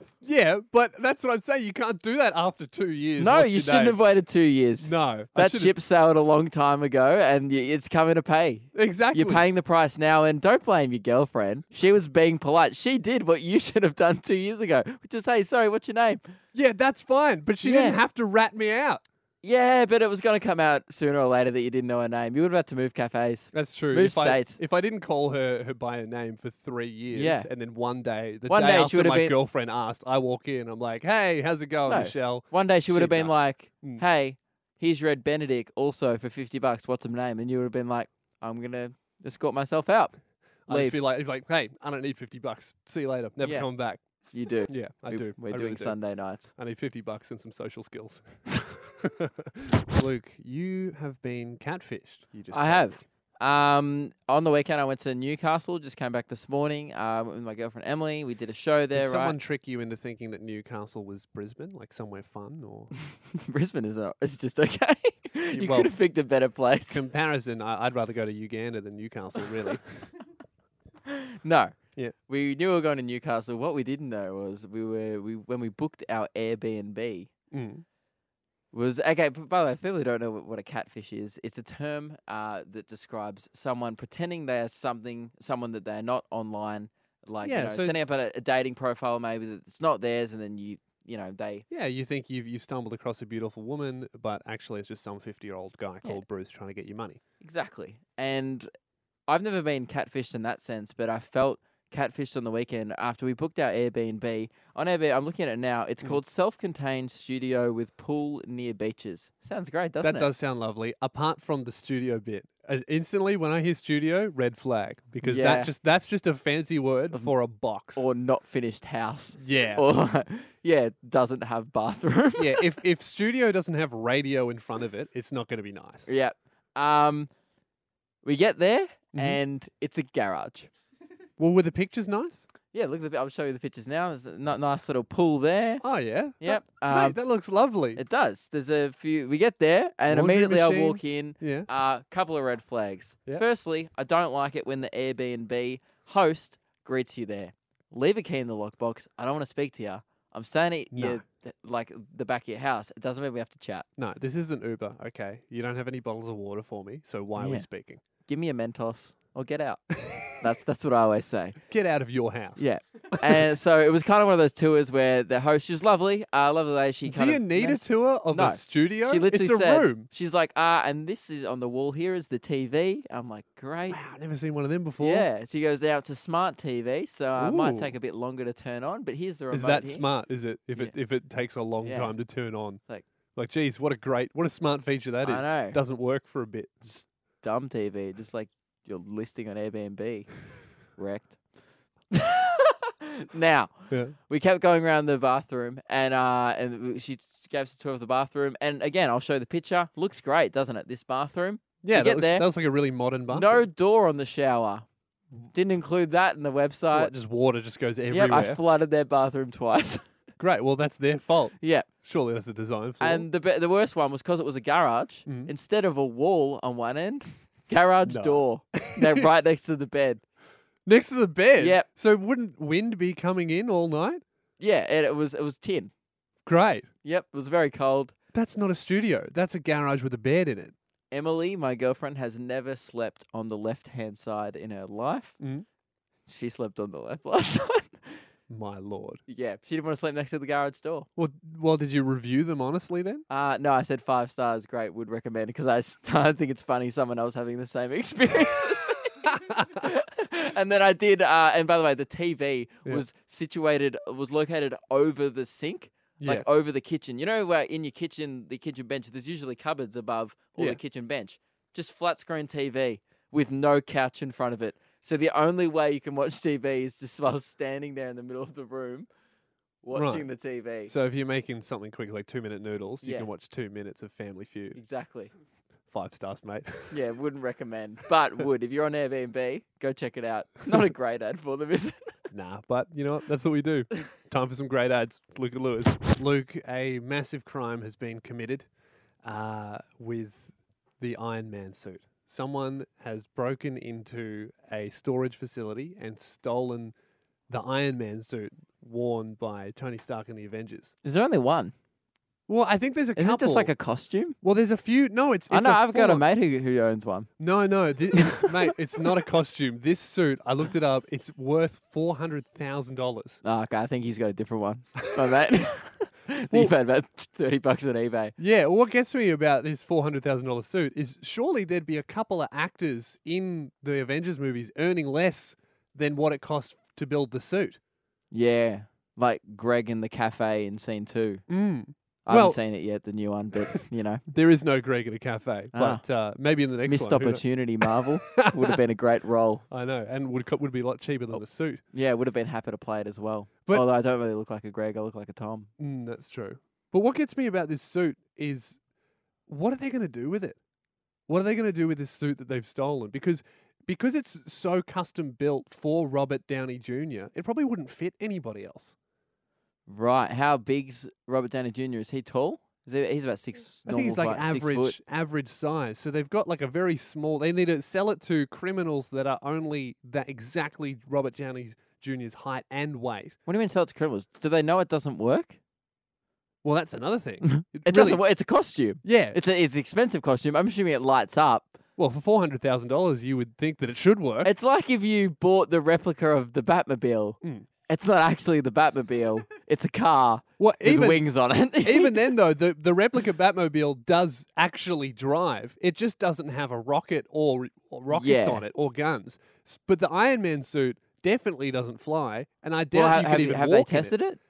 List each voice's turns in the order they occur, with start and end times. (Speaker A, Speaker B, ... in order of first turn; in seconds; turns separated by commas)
Speaker A: 0.2-4.0, Speaker B: 3.2-16.3, Speaker A: 4.8-5.7, Speaker A: 8.7-9.4, Speaker A: 16.5-19.0, Speaker B: 17.6-18.0, Speaker B: 19.4-24.6, Speaker A: 23.5-34.0, Speaker B: 27.1-27.5, Speaker B: 28.5-29.4, Speaker B: 31.9-41.0, Speaker A: 40.7-44.0, Speaker B: 43.4-43.7, Speaker B: 44.3-46.5, Speaker A: 44.7-46.0, Speaker A: 46.5-53.0, Speaker B: 52.5-59.4, Speaker A: 58.9-62.9, Speaker B: 63.1-67.0, Speaker A: 65.5-65.9, Speaker A: 66.9-70.0, Speaker B: 71.1-71.7, Speaker B: 72.3-77.3, Speaker A: 77.5-77.8, Speaker B: 78.7-91.7, Speaker A: 87.4-88.0, Speaker A: 91.7-97.2, Speaker B: 97.4-98.7, Speaker B: 99.3-110.3, Speaker A: 110.0-118.0, Speaker B: 115.2-115.7, Speaker B: 117.9-122.7, Speaker A: 119.4-119.8, Speaker A: 122.4-126.1, Speaker B: 126.1-127.3, Speaker B: 128.2-130.7, Speaker A: 129.1-129.4, Speaker A: 131.4-132.4, Speaker B: 132.7-135.9, Speaker A: 135.8-138.0, Speaker B: 136.4-137.2, Speaker B: 137.9-153.9, Speaker A: 140.1-141.7, Speaker A: 150.9-151.2, Speaker A: 154.0-158.0, Speaker B: 157.4-157.7, Speaker B: 158.2-161.6, Speaker A: 161.7-162.6, Speaker B: 162.6-174.0, Speaker A: 167.1-170.1, Speaker A: 173.9-175.2, Speaker B: 175.0-180.1, Speaker A: 177.3-177.9, Speaker A: 179.5-182.8, Speaker B: 181.8-182.2, Speaker A: 183.3-186.9, Speaker B: 185.2-185.8, Speaker B: 186.8-190.3, Speaker B: 190.9-191.4, Speaker B: 192.1-202.5, Speaker A: 193.9-194.1, Speaker A: 201.8-203.6, Speaker B: 203.3-204.8, Speaker B: 205.5-207.1, Speaker A: 206.9-208.6, Speaker B: 208.1-210.0, Speaker A: 210.4-213.2, Speaker B: 211.6-211.9, Speaker B: 213.0-220.2, Speaker A: 215.2-215.5, Speaker A: 218.0-219.2, Speaker A: 220.8-224.2, Speaker B: 221.6-221.9, Speaker B: 224.6-225.9, Speaker A: 226.4-226.9, Speaker B: 227.0-228.1, Speaker A: 228.3-230.7, Speaker B: 231.1-235.4, Speaker A: 235.4-235.7, Speaker B: 236.3-238.2, Speaker A: 238.5-239.2, Speaker B: 239.3-241.1, Speaker A: 241.2-243.2, Speaker B: 243.3-269.1, Speaker A: 249.2-249.9, Speaker A: 256.2-256.4, Speaker B: 269.8-270.9, Speaker A: 269.9-270.3, Speaker A: 270.8-274.8, Speaker B: 273.0-273.3, Speaker B: 274.7-275.3, Speaker A: 275.9-276.9, Speaker B: 276.9-282.2, Speaker A: 282.3-288.7, Speaker A: 289.2-296.9, Speaker A: 297.5-300.9, Speaker B: 301.0-301.7, Speaker A: 302.5-303.7, Speaker B: 303.1-304.4, Speaker A: 304.4-306.2, Speaker B: 305.5-307.3, Speaker A: 307.4-313.4, Speaker B: 308.2-308.7, Speaker B: 313.4-318.3, Speaker A: 318.4-327.8, Speaker B: 328.3-331.4, Speaker A: 331.5-332.6, Speaker B: 332.2-334.2, Speaker A: 334.3-337.4, Speaker B: 335.7-336.0, Speaker B: 336.8-339.6, Speaker A: 337.9-338.8, Speaker A: 339.7-341.8, Speaker B: 341.3-345.7, Speaker A: 345.8-348.8, Speaker A: 349.5-350.6, Speaker A: 351.3-358.9, Speaker B: 359.9-365.0, Speaker A: 363.9-373.4, Speaker B: 373.4-375.6, Speaker A: 376.6-378.2, Speaker B: 377.4-381.8, Speaker A: 379.0-379.4, Speaker A: 382.0-384.5, Speaker B: 384.4-392.4, Speaker A: 387.4-387.7, Speaker A: 390.6-391.2, Speaker A: 391.8-404.1, Speaker B: 398.1-398.6, Speaker B: 402.9-404.4